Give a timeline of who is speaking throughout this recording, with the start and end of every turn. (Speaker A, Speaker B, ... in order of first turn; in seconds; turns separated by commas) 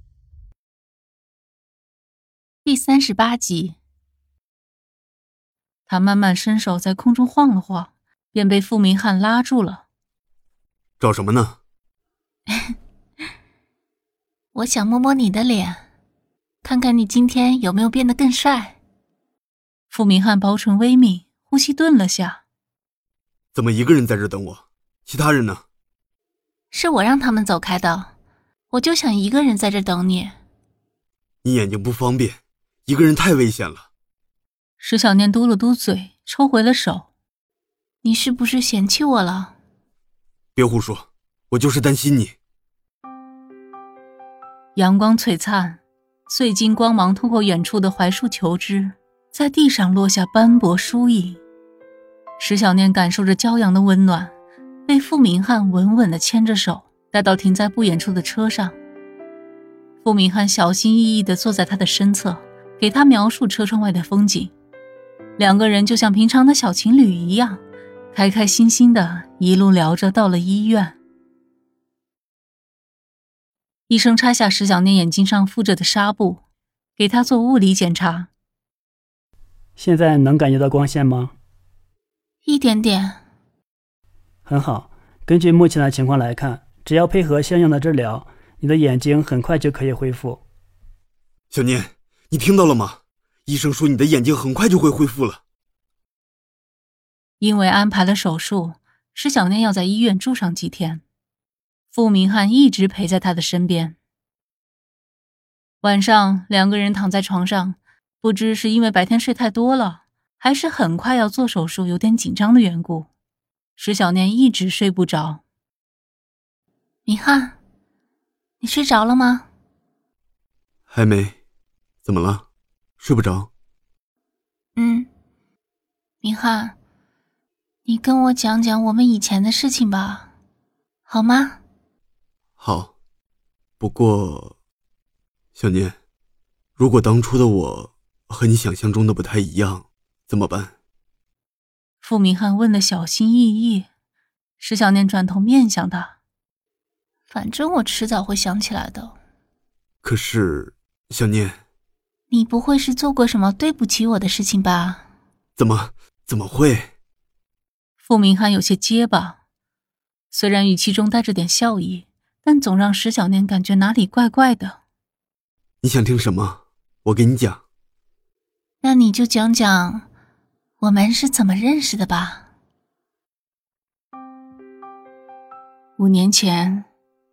Speaker A: 2.6-3.8, Speaker A: 5.9-9.8, Speaker B: 11.0-11.6, Speaker A: 14.5-15.8, Speaker A: 16.6-18.8, Speaker A: 19.9-22.4, Speaker B: 23.5-25.6, Speaker A: 26.7-28.1, Speaker A: 28.7-30.4, Speaker B: 31.4-33.9, Speaker A: 34.8-37.1, Speaker A: 38.0-39.5, Speaker B: 40.5-42.3, Speaker A: 44.8-51.4, Speaker A: 52.4-54.3, Speaker A: 54.9-58.7, Speaker A: 60.0-64.5, Speaker A: 65.4-71.0, Speaker A: 73.9-76.4, Speaker A: 77.0-78.3, Speaker C: 79.8-81.3, Speaker A: 82.4-83.2, Speaker C: 84.4-90.4, Speaker B: 91.5-95.4, Speaker A: 97.4-101.0, Speaker A: 101.9-104.0, Speaker A: 105.8-113.1, Speaker A: 113.8-115.4, Speaker A: 117.0-117.6, Speaker A: 118.6-119.5, Speaker B: 120.9-121.3, Speaker B: 122.0-122.4, Speaker B: 123.0-123.5, Speaker A: 124.8-125.1, Speaker A: 126.2-126.7, Speaker A: 127.8-130.3, Speaker A: 131.1-131.6, Speaker B: 132.6-132.9, Speaker B: 133.8-134.5, Speaker B: 135.6-135.9, Speaker B: 136.8-140.7, Speaker A: 142.0-143.9, Speaker A: 144.6-146.1, Speaker A: 147.3-149.2, Speaker B: 150.0-151.6, Speaker A: 152.3-155.0, Speaker B: 155.6-156.9, Speaker A: 158.0-159.4, Speaker A: 160.3-164.8, Speaker B: 165.8-167.6, Speaker A: 168.8-170.1, Speaker A: 170.8-172.4, Speaker A: 176.0-176.8